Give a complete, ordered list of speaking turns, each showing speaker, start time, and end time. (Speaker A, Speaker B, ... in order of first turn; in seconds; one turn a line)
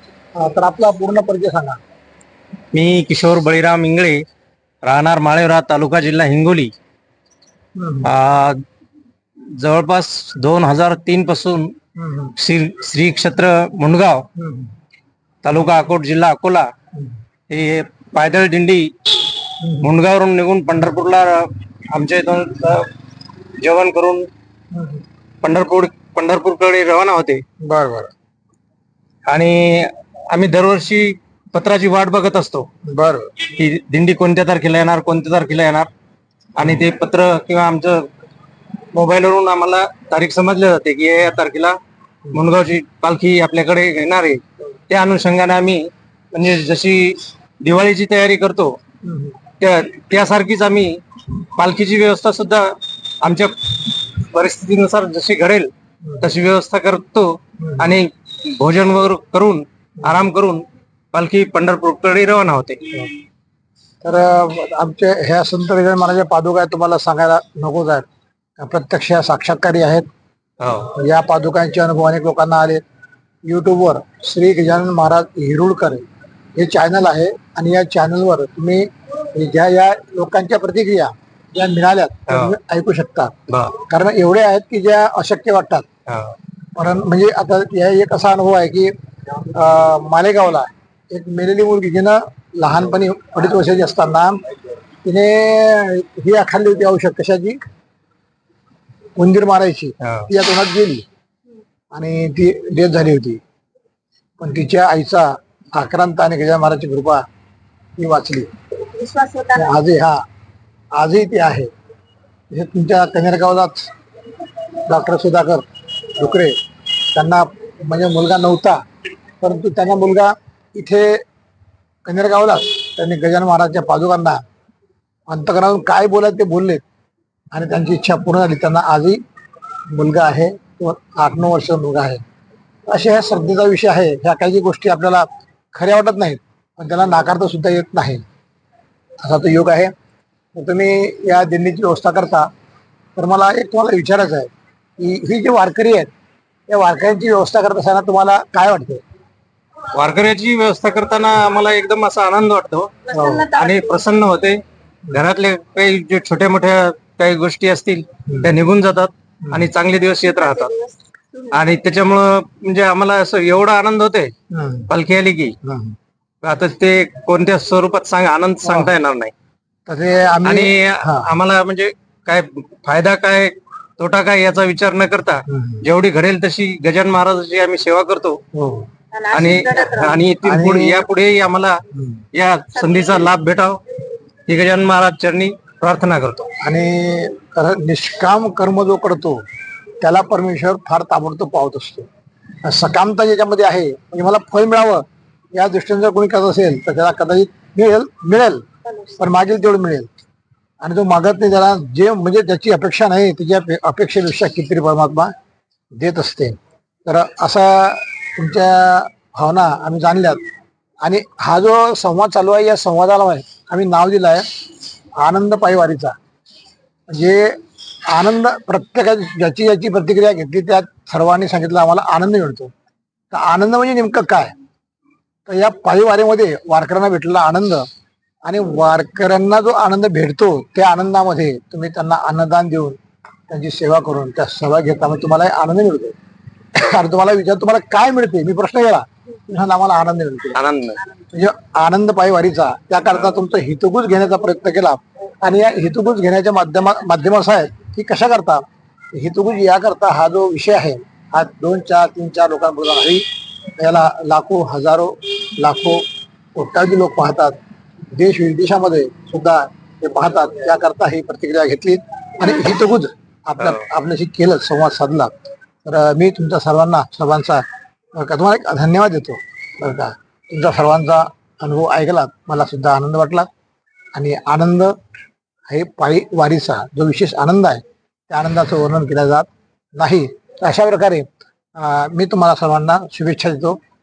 Speaker A: 0.4-1.8
Speaker B: 2.7-4.2
Speaker B: 4.8-6.7
Speaker A: 7.8-8.1
Speaker B: 8.0-8.6
Speaker B: 9.6-11.7
Speaker A: 12.0-12.3
Speaker B: 12.4-14.3
Speaker A: 14.4-14.7
Speaker B: 15.4-16.7
Speaker B: 17.5-18.9
Speaker A: 19.6-19.9
Speaker B: 19.8-22.9
Speaker B: 23.5-24.3
Speaker A: 24.7-25.0
Speaker B: 25.4-27.4
Speaker A: 27.6-28.1
Speaker B: 29.3-32.7
Speaker A: 32.9-33.3
Speaker B: 33.5-35.9
Speaker B: 36.6-38.1
Speaker B: 38.9-41.8
Speaker B: 42.3-45.8
Speaker B: 46.3-48.8
Speaker A: 49.0-49.4
Speaker B: 49.6-62.9
Speaker A: 56.0-56.3
Speaker A: 57.6-57.9
Speaker A: 64.0-68.1
Speaker A: 68.6-70.1
Speaker B: 70.6-70.9
Speaker A: 70.9-72.8
Speaker A: 73.5-76.0
Speaker A: 76.6-85.9
Speaker B: 82.3-82.5
Speaker B: 83.5-83.8
Speaker B: 86.1-86.3
Speaker A: 86.8-94.4
Speaker A: 95.0-97.6
Speaker A: 99.2-101.1
Speaker B: 100.0-100.3
Speaker A: 101.9-103.4
Speaker A: 104.4-107.2
Speaker A: 108.0-108.5
Speaker C: 109.0-109.7
Speaker A: 109.5-110.2
Speaker A: 111.0-111.7
Speaker A: 112.5-113.8
Speaker A: 114.9-115.6
Speaker A: 116.2-116.6
Speaker A: 117.2-118.8
Speaker A: 119.4-121.2
Speaker A: 122.1-124.4
Speaker A: 125.3-126.8
Speaker A: 127.5-129.2
Speaker A: 129.9-132.2
Speaker A: 132.9-138.2
Speaker A: 139.2-139.9
Speaker A: 140.6-142.5
Speaker A: 143.2-146.1
Speaker A: 146.7-149.0
Speaker B: 149.9-160.8
Speaker C: 153.1-154.0
Speaker A: 153.1-153.5
Speaker A: 158.3-158.5
Speaker A: 159.4-159.7
Speaker C: 160.4-161.6
Speaker B: 161.5-164.3
Speaker A: 164.5-164.9
Speaker B: 164.9-165.6
Speaker A: 165.6-165.9
Speaker B: 166.4-169.3
Speaker A: 168.6-168.9
Speaker A: 169.9-171.3
Speaker B: 170.4-178.4
Speaker A: 175.5-175.8
Speaker A: 178.5-178.9
Speaker C: 179.1-180.2
Speaker B: 179.3-181.8
Speaker A: 180.4-181.1
Speaker A: 181.9-182.3
Speaker B: 182.3-183.8
Speaker B: 184.5-186.5
Speaker A: 186.6-189.4
Speaker A: 190.0-192.1
Speaker A: 192.6-195.0
Speaker A: 195.6-200.1
Speaker A: 200.8-205.3
Speaker A: 205.9-210.4
Speaker A: 211.0-214.4
Speaker A: 215.2-216.2
Speaker A: 217.1-217.6
Speaker A: 218.1-222.7
Speaker A: 223.3-224.5
Speaker A: 225.5-227.9
Speaker A: 228.4-236.2
Speaker A: 236.7-240.6
Speaker B: 240.5-241.0
Speaker A: 241.3-253.2
Speaker A: 253.8-257.6
Speaker A: 258.1-265.3
Speaker B: 263.6-263.9
Speaker A: 265.9-267.6
Speaker A: 268.1-273.5
Speaker A: 274.1-274.9
Speaker A: 275.7-283.8